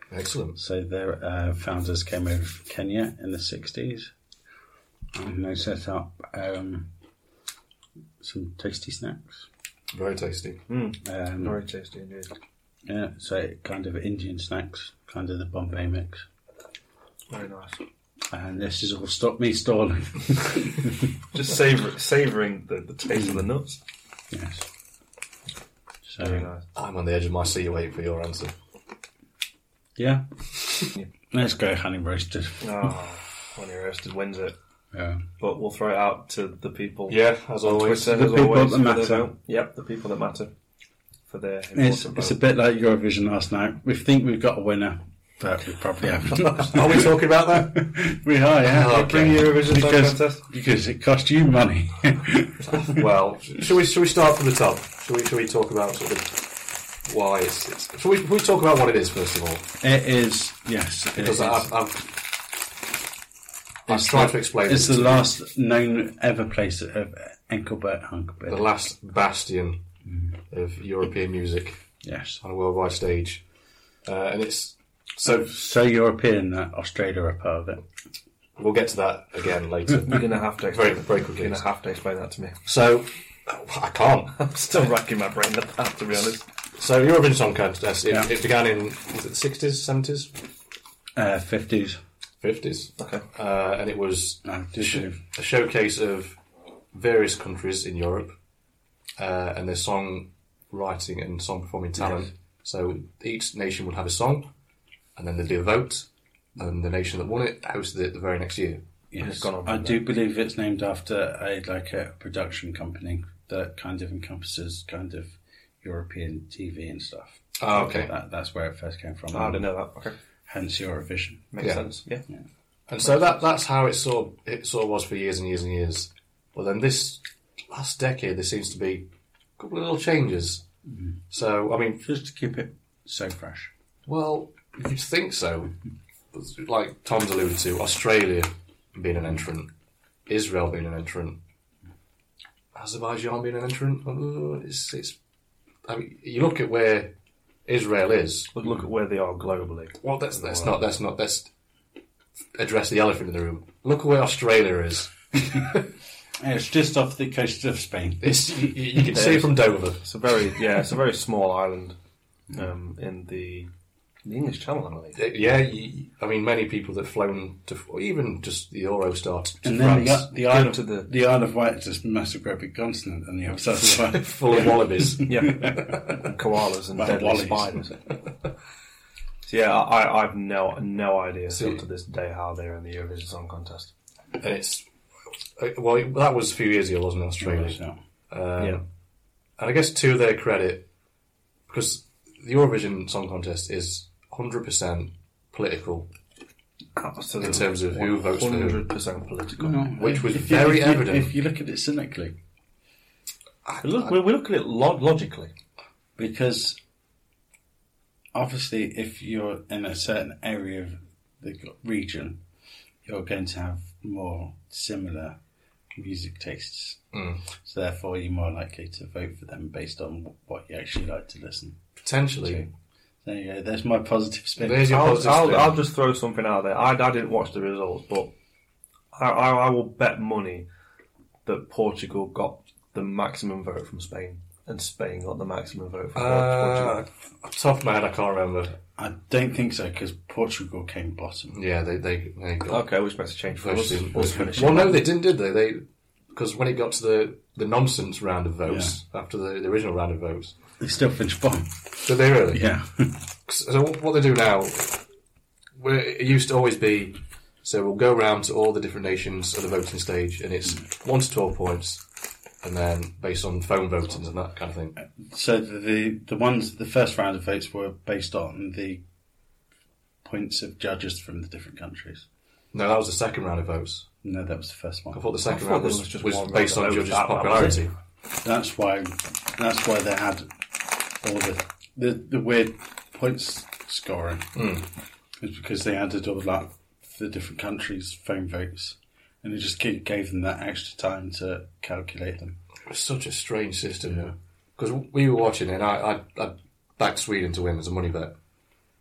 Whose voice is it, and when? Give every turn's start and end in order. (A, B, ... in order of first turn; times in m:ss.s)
0:00.1-0:00.6 A
0:00.6-0:04.1 B
0:05.1-0:06.9 B
0:08.2-0:09.5 B
0:09.9-0:10.6 A
0:10.7-0:12.4 C
0:11.0-0:11.6 B
0:12.8-0:16.2 B
0:17.3-0:17.8 C
0:18.3-0:21.2 B
0:21.3-0:23.8 C
0:24.3-0:24.6 B
0:26.0-0:26.5 B
0:26.2-0:26.6 C
0:26.7-0:28.5 A
0:30.0-0:32.9 B
0:32.6-0:34.6 C
0:34.9-0:35.2 B
0:35.4-0:40.5 C
0:37.1-0:38.1 A
0:38.0-0:39.3 B
0:41.3-0:42.4 C
0:41.7-0:53.0 B
0:46.5-0:47.9 A
0:48.7-0:49.4 A
0:48.8-0:50.4 C
0:52.6-0:56.4 A
0:57.0-0:59.6 A
0:59.8-1:01.7 B
1:01.2-1:02.0 A
1:03.8-1:05.3 A
1:03.9-1:08.6 B
1:08.5-1:09.8 A
1:10.1-1:10.3 B
1:10.5-1:11.8 A
1:12.0-1:12.4 B
1:12.4-1:13.4 A
1:14.0-1:15.5 A
1:15.3-1:17.8 B
1:18.6-1:21.6 A
1:20.1-1:22.6 C
1:22.6-1:24.5 A
1:24.4-1:26.4 C
1:26.8-1:30.3 A
1:31.2-1:32.0 B
1:32.4-1:36.4 A
1:33.0-1:33.2 C
1:34.4-1:35.2 B
1:36.9-1:38.4 A
1:39.2-1:44.5 A
1:45.2-1:48.8 A
1:49.1-1:59.7 B
1:49.2-1:50.0 C
1:57.6-1:58.1 A
1:59.3-2:00.2 C
2:00.5-2:01.5 B
2:01.5-2:02.2 C
2:01.6-2:01.8 A
2:02.9-2:09.1 A
2:09.6-2:10.6 A
2:11.3-2:12.0 A
2:12.0-2:13.7 B
2:14.0-2:15.7 A
2:16.3-2:19.7 A
2:20.3-2:21.4 A
2:22.7-2:25.2 A
2:25.8-2:27.1 A
2:27.6-2:28.5 A
2:28.5-2:30.8 C
2:30.0-2:31.5 A
2:32.5-2:35.9 A
2:36.4-2:38.7 B
2:38.2-2:40.0 A
2:39.1-2:42.0 C
2:42.5-2:43.7 C
2:44.2-2:45.2 C
2:45.1-2:50.3 A
2:49.6-2:55.9 B
2:50.4-2:51.1 C
2:54.0-2:56.2 A
2:55.3-2:58.0 C
2:56.9-2:57.8 B
2:59.4-3:03.9 C
3:01.5-3:01.8 A
3:04.4-3:04.9 A
3:05.6-3:08.8 A
3:07.4-3:08.0 B
3:09.6-3:10.9 A
3:11.7-3:16.1 A
3:17.0-3:19.8 C
3:17.4-3:18.8 A
3:19.6-3:22.4 B
3:20.0-3:21.3 A
3:23.6-3:24.1 A
3:23.8-3:25.5 C
3:26.2-3:26.8 B
3:28.3-3:32.4 B
3:33.0-3:35.4 B
3:35.9-3:37.0 B
3:37.1-3:37.4 A
3:37.6-3:41.8 B
3:42.0-3:42.7 A
3:43.2-3:45.1 B
3:44.6-3:45.8 A
3:44.8-3:48.3 C
3:49.1-3:50.7 C
3:51.4-3:57.0 C
3:56.1-3:58.8 A
3:59.0-4:01.5 B
4:01.5-4:02.8 A
4:02.7-4:05.1 C
4:03.6-4:10.5 A
4:08.7-4:08.9 B
4:10.8-4:13.2 B
4:12.0-4:12.6 A
4:13.5-4:15.0 A
4:15.8-4:22.0 A
4:22.6-4:25.0 A
4:25.2-4:29.0 B
4:30.2-4:32.2 B
4:32.7-4:34.1 A
4:34.2-4:35.2 B
4:35.1-4:37.9 A
4:35.4-4:37.8 C
4:38.4-4:40.5 B
4:41.2-4:44.5 B
4:44.5-4:44.8 A
4:45.4-4:52.6 B
4:52.9-4:58.3 A